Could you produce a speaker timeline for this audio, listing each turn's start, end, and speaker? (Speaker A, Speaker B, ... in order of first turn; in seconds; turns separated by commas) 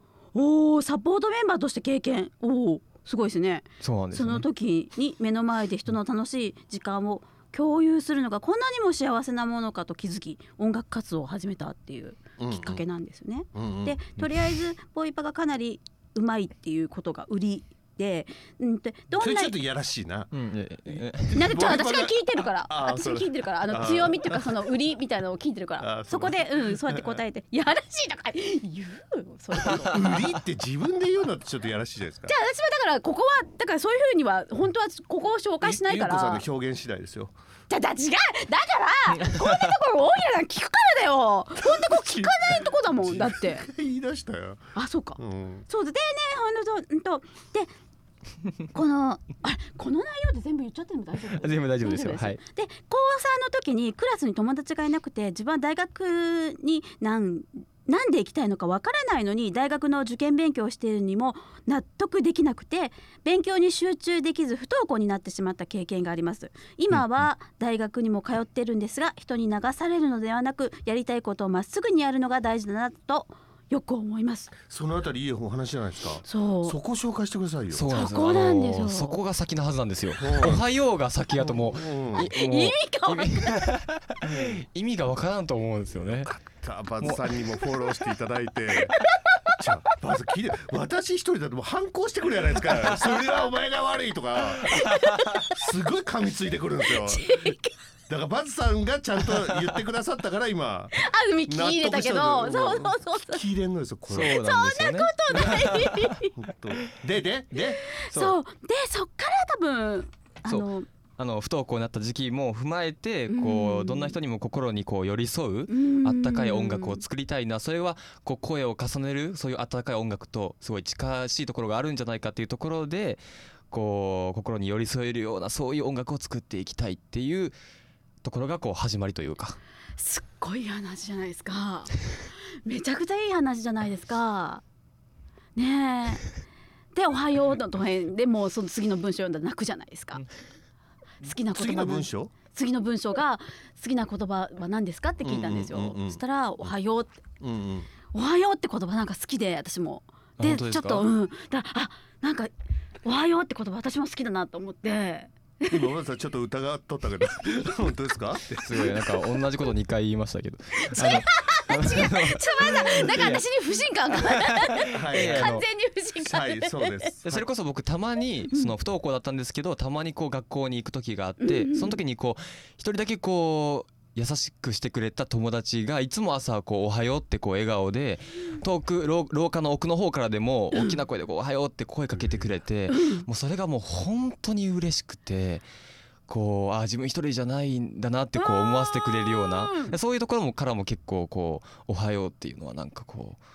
Speaker A: 0.3-19.6, Speaker B: 3.8-4.5, Speaker C: 12.4-12.8, Speaker C: 13.5-14.0, Speaker C: 19.1-20.3, Speaker B: 20.3-21.5, Speaker C: 20.9-24.6, Speaker A: 21.3-30.1, Speaker C: 25.8-27.2, Speaker C: 29.8-32.3, Speaker A: 32.3-36.4, Speaker C: 35.6-37.3, Speaker A: 37.7-43.7, Speaker C: 41.6-45.6, Speaker A: 44.7-47.7, Speaker A: 48.7-74.5, Speaker B: 51.3-52.4, Speaker C: 74.7-77.9, Speaker A: 76.2-76.8, Speaker B: 77.7-86.3, Speaker A: 77.9-79.2, Speaker C: 80.2-80.6, Speaker C: 81.3-82.3, Speaker A: 82.1-83.6, Speaker C: 84.2-84.6, Speaker C: 86.2-89.0, Speaker B: 87.0-87.4, Speaker A: 89.0-89.5, Speaker C: 89.6-94.8, Speaker A: 94.7-95.5, Speaker C: 95.5-97.5, Speaker A: 96.9-97.7, Speaker C: 98.1-100.9, Speaker A: 100.9-103.4, Speaker C: 101.5-104.4, Speaker B: 104.1-106.1, Speaker A: 104.2-106.3, Speaker C: 106.4-107.8, Speaker A: 107.8-110.9, Speaker B: 108.1-108.3, Speaker B: 110.5-127.5, Speaker A: 113.3-114.1, Speaker A: 115.7-117.0, Speaker B: 128.2-129.6, Speaker A: 130.0-132.0, Speaker A: 132.6-134.6, Speaker A: 135.6-136.3, Speaker A: 136.9-140.2, Speaker A: 141.2-147.2, Speaker C: 141.5-142.3, Speaker C: 145.2-146.2, Speaker C: 147.4-147.9, Speaker A: 148.1-152.5, Speaker B: 150.4-151.1, Speaker A: 153.0-155.9, Speaker C: 155.7-159.1, Speaker B: 158.6-163.4, Speaker A: 160.8-167.1, Speaker B: 164.1-165.6, Speaker C: 164.9-165.5, Speaker C: 166.2-167.4, Speaker B: 167.2-185.6, Speaker A: 171.4-172.0, Speaker A: 182.9-183.2, Speaker B: 186.3-193.4, Speaker A: 188.3-189.9